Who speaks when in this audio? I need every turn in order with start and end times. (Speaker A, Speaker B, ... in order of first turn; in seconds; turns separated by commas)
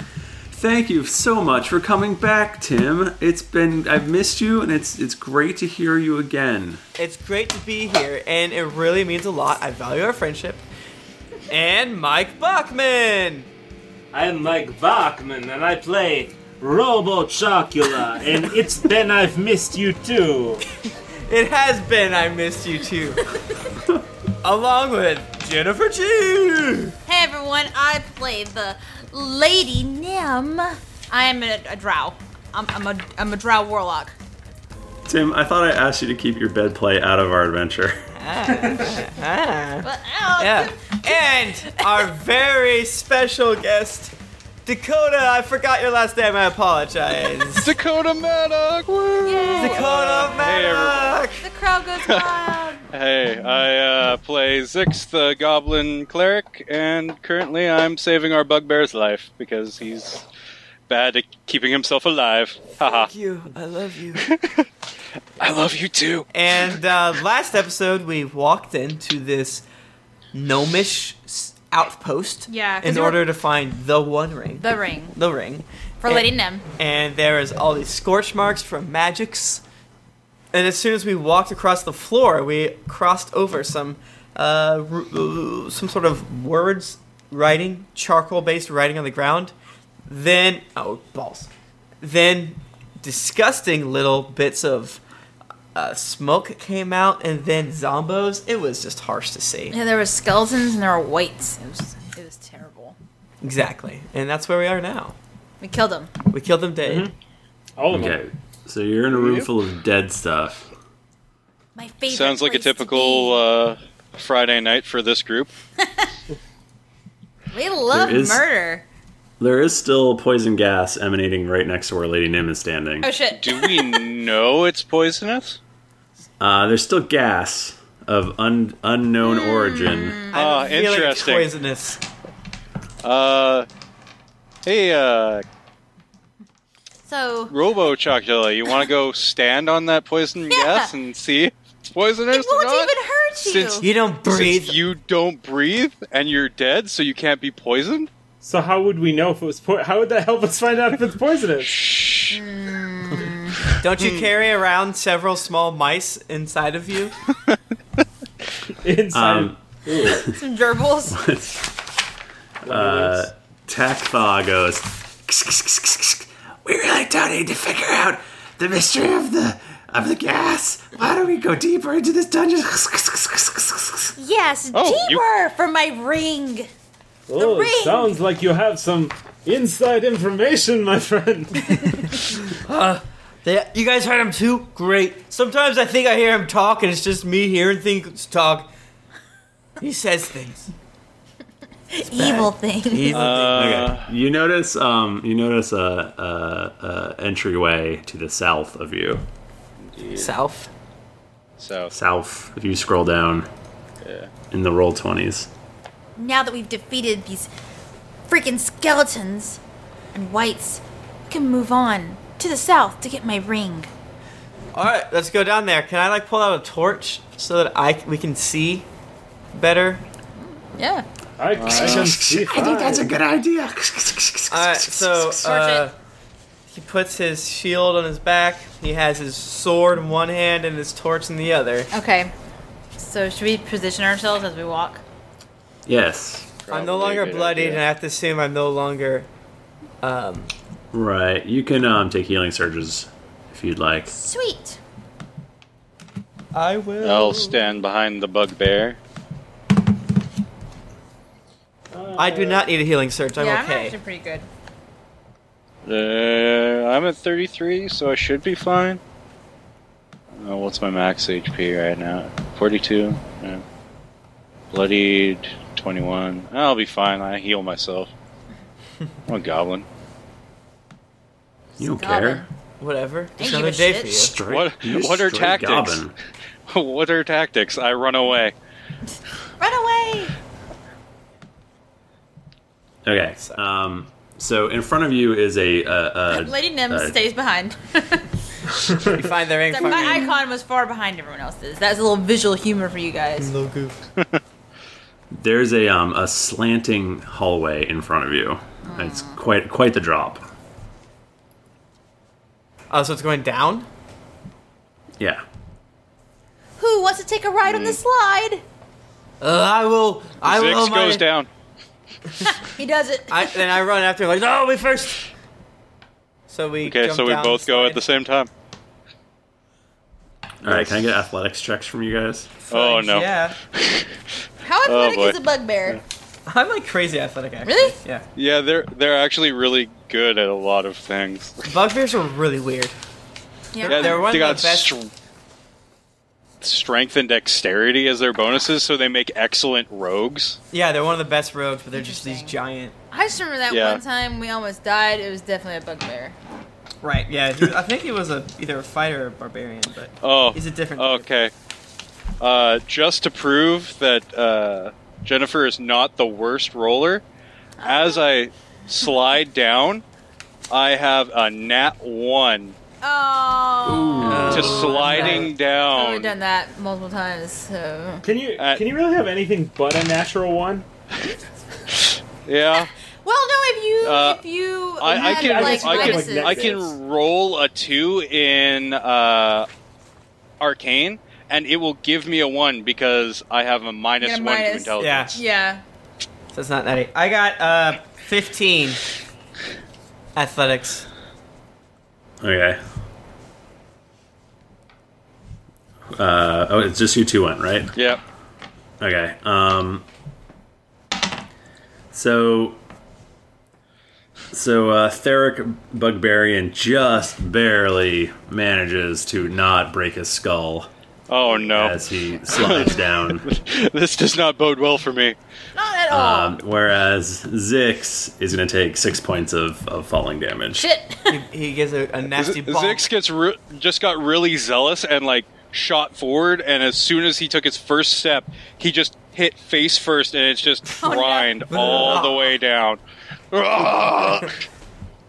Speaker A: 0.5-6.8, Speaker B: 7.0-10.6, Speaker B: 11.5-13.5, Speaker C: 14.1-20.6, Speaker B: 21.3-23.3, Speaker B: 24.4-26.9, Speaker D: 27.1-34.1, Speaker A: 35.0-38.0, Speaker B: 38.2-44.1, Speaker D: 39.8-42.0, Speaker B: 44.6-47.7, Speaker E: 47.6-51.2, Speaker D: 49.2-50.0, Speaker B: 49.5-51.4, Speaker D: 51.4-52.8, Speaker E: 52.0-52.3, Speaker E: 52.9-60.2, Speaker E: 60.9-63.1, Speaker B: 62.8-64.2, Speaker E: 64.2-64.7, Speaker E: 65.4-66.3, Speaker B: 66.3-69.6, Speaker B: 70.3-79.6, Speaker D: 72.5-73.3, Speaker D: 74.6-75.2, Speaker D: 76.0-76.6, Speaker B: 80.5-89.5, Speaker B: 90.1-91.5, Speaker B: 92.0-95.0, Speaker B: 95.7-99.8, Speaker D: 99.7-103.0, Speaker B: 103.4-105.2, Speaker D: 105.6-106.1, Speaker B: 106.2-107.1, Speaker C: 106.8-107.1, Speaker C: 107.8-108.2, Speaker A: 107.9-110.7, Speaker D: 111.8-113.4, Speaker E: 112.1-115.5, Speaker D: 115.8-116.1, Speaker D: 117.5-118.8, Speaker A: 117.9-118.5, Speaker A: 119.4-123.1, Speaker D: 123.0-124.0, Speaker E: 123.3-125.6, Speaker A: 126.4-130.3, Speaker D: 129.2-130.3, Speaker B: 130.3-132.0, Speaker E: 130.3-131.5, Speaker E: 133.0-133.7, Speaker E: 134.6-135.4, Speaker D: 137.1-137.5, Speaker E: 137.5-148.1, Speaker D: 140.5-140.9, Speaker D: 142.3-143.8, Speaker B: 143.8-144.8, Speaker C: 148.4-151.8, Speaker E: 151.8-152.4, Speaker D: 152.3-153.6, Speaker B: 153.8-157.1, Speaker C: 158.8-160.3, Speaker A: 159.1-160.3, Speaker D: 160.3-161.2, Speaker A: 161.1-161.7, Speaker C: 162.6-163.3, Speaker A: 162.6-174.1, Speaker D: 174.2-176.7, Speaker E: 174.7-175.2, Speaker C: 177.3-181.9, Speaker D: 177.4-178.2, Speaker B: 182.2-188.7, Speaker B: 189.8-190.7, Speaker D: 191.9-193.3, Speaker B: 192.1-193.9, Speaker E: 193.1-194.1, Speaker A: 193.5-199.2, Speaker E: 199.8-200.3, Speaker B: 200.1-200.7, Speaker E: 201.6-201.9, Speaker A: 201.9-203.5, Speaker E: 204.0-204.3, Speaker A: 204.5-205.5, Speaker D: 206.2-207.5, Speaker D: 208.3-209.6, Speaker D: 210.1-213.9, Speaker B: 214.7-218.9, Speaker B: 219.5-220.0, Speaker D: 220.4-221.1, Speaker C: 221.4-223.1, Speaker E: 221.6-222.0, Speaker A: 221.6-225.5, Speaker B: 224.5-225.9, Speaker D: 225.4-225.9, Speaker B: 226.7-231.9, Speaker D: 231.9-232.3, Speaker D: 233.0-235.0, Speaker A: 235.8-236.5, Speaker E: 236.6-237.8, Speaker B: 236.7-239.3, Speaker B: 240.0-240.5, Speaker A: 240.9-244.1, Speaker D: 244.1-244.8, Speaker B: 246.5-247.7, Speaker E: 247.0-249.0, Speaker C: 251.9-252.7, Speaker B: 252.2-253.9, Speaker D: 253.3-254.5, Speaker E: 255.8-259.0, Speaker E: 260.4-263.6, Speaker E: 264.7-268.1, Speaker E: 269.3-269.9, Speaker A: 271.8-272.4, Speaker D: 271.8-272.5, Speaker B: 272.8-274.3, Speaker D: 273.4-274.3, Speaker A: 274.2-276.1, Speaker E: 274.5-276.0, Speaker E: 276.7-278.5, Speaker D: 279.6-280.3, Speaker A: 283.0-287.1, Speaker D: 286.3-288.3, Speaker C: 288.8-289.3, Speaker B: 289.0-290.4, Speaker D: 289.7-293.5, Speaker B: 293.4-294.0, Speaker E: 294.2-294.4, Speaker A: 295.3-300.4, Speaker D: 298.8-299.4, Speaker B: 302.9-303.9, Speaker D: 306.8-308.6, Speaker E: 307.6-308.0, Speaker B: 309.4-311.2, Speaker E: 310.4-311.5, Speaker D: 312.4-313.7, Speaker B: 313.3-315.3, Speaker B: 316.5-318.0, Speaker E: 316.8-318.5, Speaker A: 320.6-322.5, Speaker B: 322.7-323.6, Speaker E: 322.7-324.3, Speaker D: 324.6-326.0, Speaker E: 324.8-325.4, Speaker B: 326.5-328.2, Speaker D: 327.6-327.9, Speaker E: 328.3-331.7, Speaker B: 331.6-333.0, Speaker D: 333.7-334.2, Speaker B: 333.8-334.9, Speaker E: 333.8-335.1, Speaker E: 336.6-340.6, Speaker B: 340.7-342.9, Speaker D: 341.9-342.5, Speaker D: 343.1-346.4, Speaker E: 343.7-344.0, Speaker B: 347.0-351.2, Speaker E: 350.2-351.5, Speaker E: 352.4-357.2, Speaker D: 357.8-358.2, Speaker E: 357.8-360.0, Speaker E: 360.7-362.8, Speaker D: 363.0-368.2, Speaker A: 363.8-365.0, Speaker B: 364.2-365.5, Speaker E: 364.5-366.3, Speaker C: 368.2-370.9, Speaker E: 368.6-368.8, Speaker E: 371.9-372.9, Speaker D: 373.2-376.7, Speaker E: 374.0-374.4, Speaker E: 375.0-379.7, Speaker C: 375.0-376.9, Speaker E: 380.6-385.4, Speaker D: 384.2-385.8, Speaker B: 385.0-385.4, Speaker B: 386.5-389.1, Speaker B: 390.3-391.1, Speaker A: 392.4-392.8, Speaker A: 396.1-397.9, Speaker E: 397.9-398.2, Speaker A: 399.0-400.0, Speaker A: 402.1-402.8, Speaker A: 404.5-410.9, Speaker E: 411.3-415.4, Speaker A: 411.7-413.4, Speaker D: 415.7-416.6, Speaker A: 416.1-420.9, Speaker D: 420.7-421.4, Speaker B: 421.3-423.0, Speaker E: 422.3-433.0, Speaker D: 431.0-431.6, Speaker B: 431.7-432.6, Speaker E: 433.5-434.6